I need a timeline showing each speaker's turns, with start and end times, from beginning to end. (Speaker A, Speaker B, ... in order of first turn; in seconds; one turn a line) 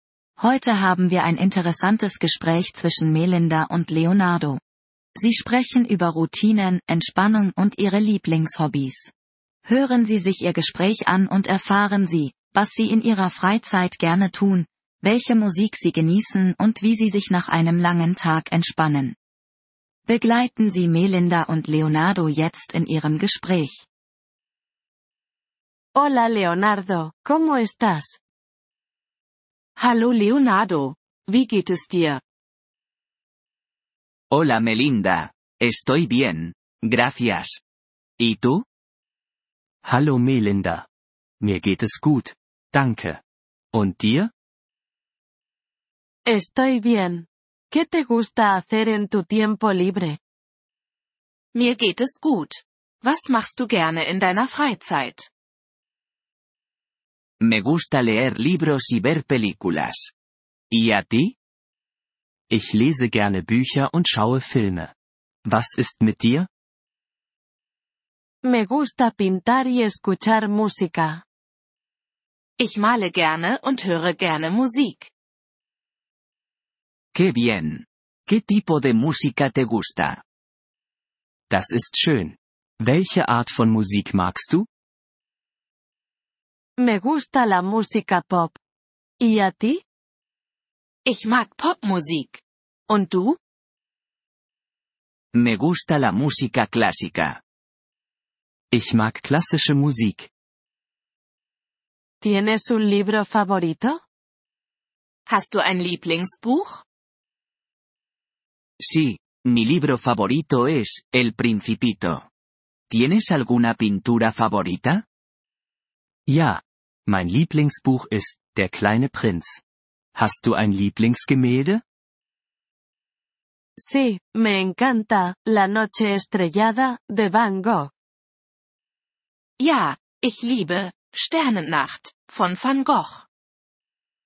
Speaker A: 0.4-4.6
Speaker A: 5.2-9.1
Speaker A: 9.6-19.1
Speaker A: 20.1-23.9
Speaker B: 25.9-28.2
Speaker C: 29.8-32.2
Speaker D: 34.3-37.6
Speaker D: 38.2-38.6
Speaker E: 39.8-40.9
Speaker E: 41.4-43.2
Speaker E: 43.7-44.3
Speaker B: 46.2-50.2
Speaker C: 51.5-55.3
Speaker D: 57.4-60.1
Speaker D: 60.7-61.4
Speaker E: 62.5-64.9
Speaker E: 65.5-66.5
Speaker B: 68.4-71.2
Speaker C: 72.6-75.1
Speaker D: 77.1-80.2
Speaker E: 81.5-84.7
Speaker B: 86.8-88.6
Speaker B: 89.2-89.8
Speaker C: 91.0-93.4
Speaker D: 95.3-97.4
Speaker E: 98.7-100.3
Speaker B: 102.2-104.0
Speaker C: 105.3-106.8
Speaker D: 108.8-112.3
Speaker D: 112.9-115.0
Speaker E: 116.3-119.6
Speaker E: 120.1-121.8
Speaker B: 123.8-127.9
Speaker C: 129.6-133.2